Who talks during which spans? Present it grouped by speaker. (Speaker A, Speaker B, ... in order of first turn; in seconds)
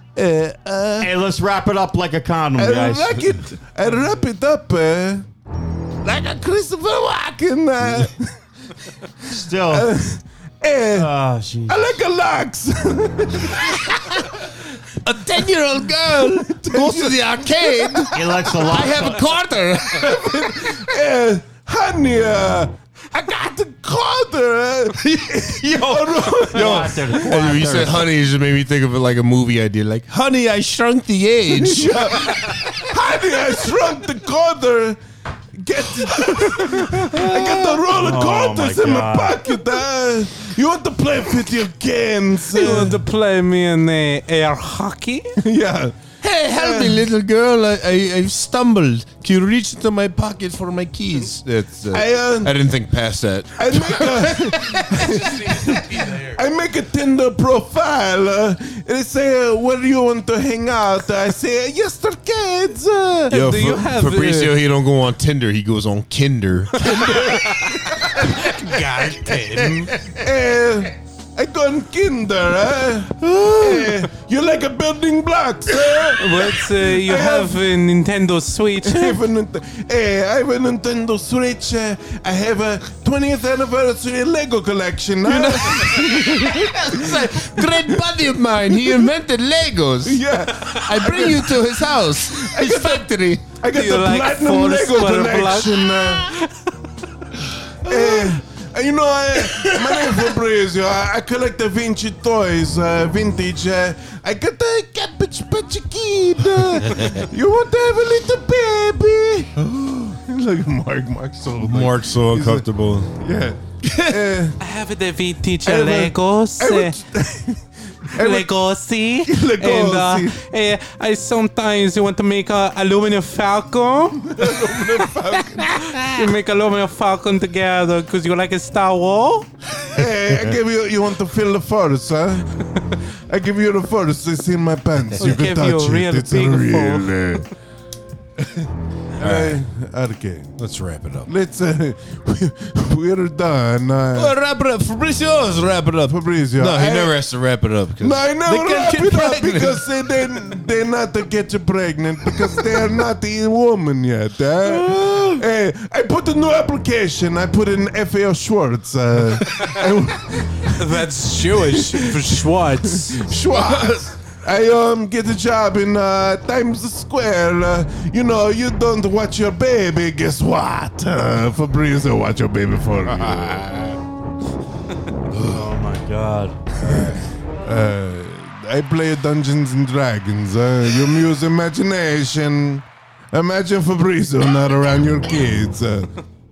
Speaker A: 0.1-1.1, 2.6-5.2, 6.0-8.3, 9.7-11.1, 11.7-14.6, 15.4-18.2, 19.9-27.6, 31.5-35.0, 35.6-43.0, 45.4-47.1, 51.9-52.6, 53.6-63.4, 69.6-77.6, 78.8-89.1, 90.0-96.3, 97.8-112.7, 113.2-114.5, 115.6-118.5, 119.2-120.3, 124.3-126.0, 129.8-132.5, 133.3-137.4, 139.2-140.5, 141.2-144.3, 146.1-147.2, 148.0-162.5, 163.0-173.6, 176.9-177.1, 177.6-186.1
Speaker B: 1.0-3.4, 9.3-9.9, 10.9-12.0, 18.1-19.2, 25.6-28.1, 37.9-39.5, 175.4-176.6
Speaker C: 15.0-20.4, 26.4-32.6, 37.1-37.7, 46.2-54.8, 63.3-68.3, 69.5-70.0, 85.2-93.4, 97.8-98.3, 106.8-107.2, 111.6-113.1, 113.8-114.3, 139.2-139.6, 140.6-141.3, 144.1-149.8, 163.5-163.9, 173.1-174.0, 175.3-175.7, 176.7-177.2
Speaker D: 42.5-45.4, 54.9-56.4, 63.3-64.7, 66.9-67.3, 68.4-69.9, 76.2-79.2, 93.7-96.5, 114.6-116.9, 118.2-124.4, 125.9-129.5, 135.2-137.2, 148.7-149.2, 160.8-163.3